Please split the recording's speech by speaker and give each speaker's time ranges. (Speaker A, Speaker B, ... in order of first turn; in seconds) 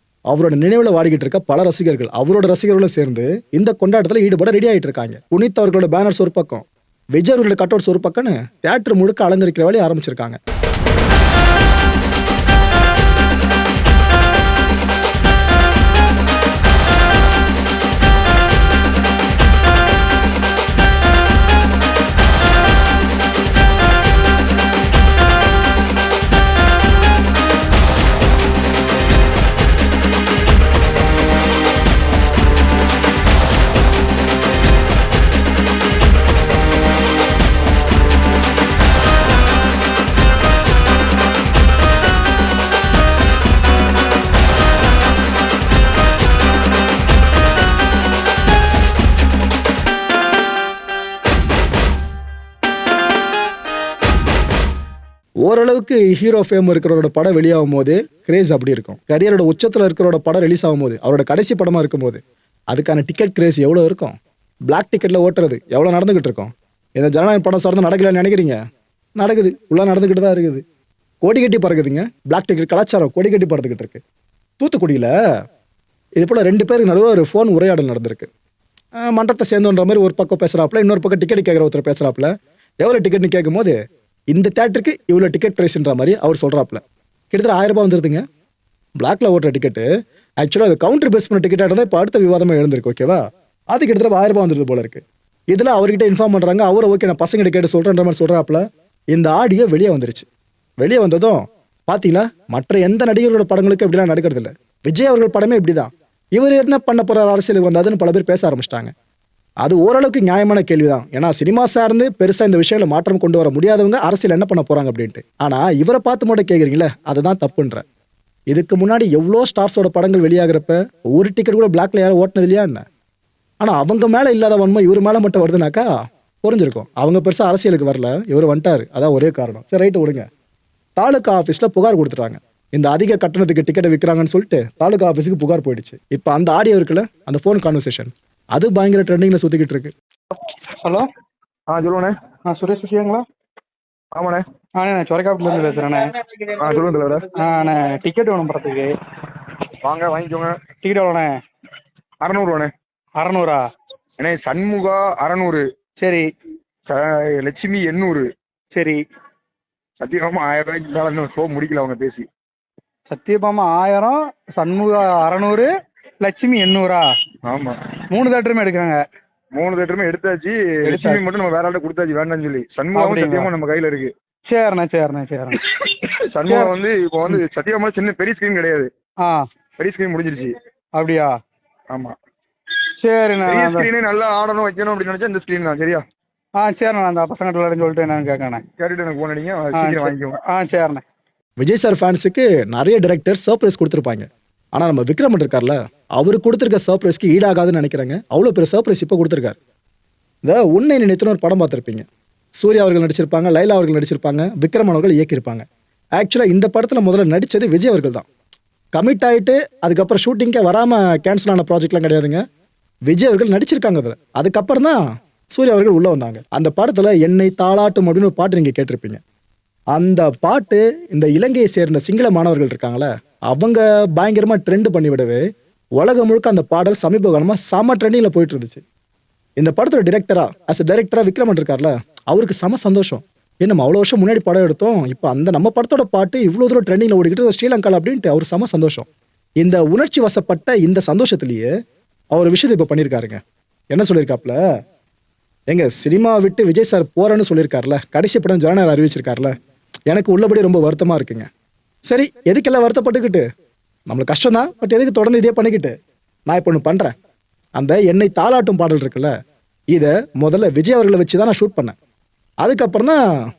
Speaker A: 0.3-10.4, 55.4-62.2, 62.7-64.1, 64.7-68.6, 69.2-70.6, 71.2-74.0, 74.6-75.1, 76.2-78.3, 79.0-83.7, 84.3-88.2, 89.0-89.8, 90.4-100.2, 100.8-108.9, 109.6-117.8, 118.5-122.8, 123.6-125.9, 126.4-130.2, 131.0-139.9, 191.6-199.6, 200.4-202.0, 202.6-205.6, 206.2-208.2, 208.9-212.4, 213.1-215.0, 215.5-219.2, 219.9-225.4, 226.0-228.8, 229.6-239.1, 239.6-241.7, 242.3-243.4, 243.9-244.6, 245.7-249.5, 250.1-251.5, 252.1-253.4, 254.1-255.9, 256.5-257.1, 257.8-259.3, 259.9-261.9, 262.6-263.2
Speaker B: 141.7-142.1, 144.1-144.4, 146.6-147.3, 149.8-150.6, 152.2-152.7, 154.2-155.6, 156.9-158.3, 160.0-162.3, 167.4-167.8, 169.5-174.1, 175.8-178.9, 179.8-180.5, 181.9-182.2, 183.4-186.0, 188.8-190.4
Speaker C: 142.5-143.2, 144.8-148.9, 150.8-151.3, 153.2-153.6, 156.0-156.2, 158.7-159.0, 163.1-165.7, 166.2-167.1, 168.1-169.0, 170.9-171.2, 172.9-173.5, 174.5-176.7, 181.0-181.3, 183.0-183.9, 186.6-188.6, 189.8-191.0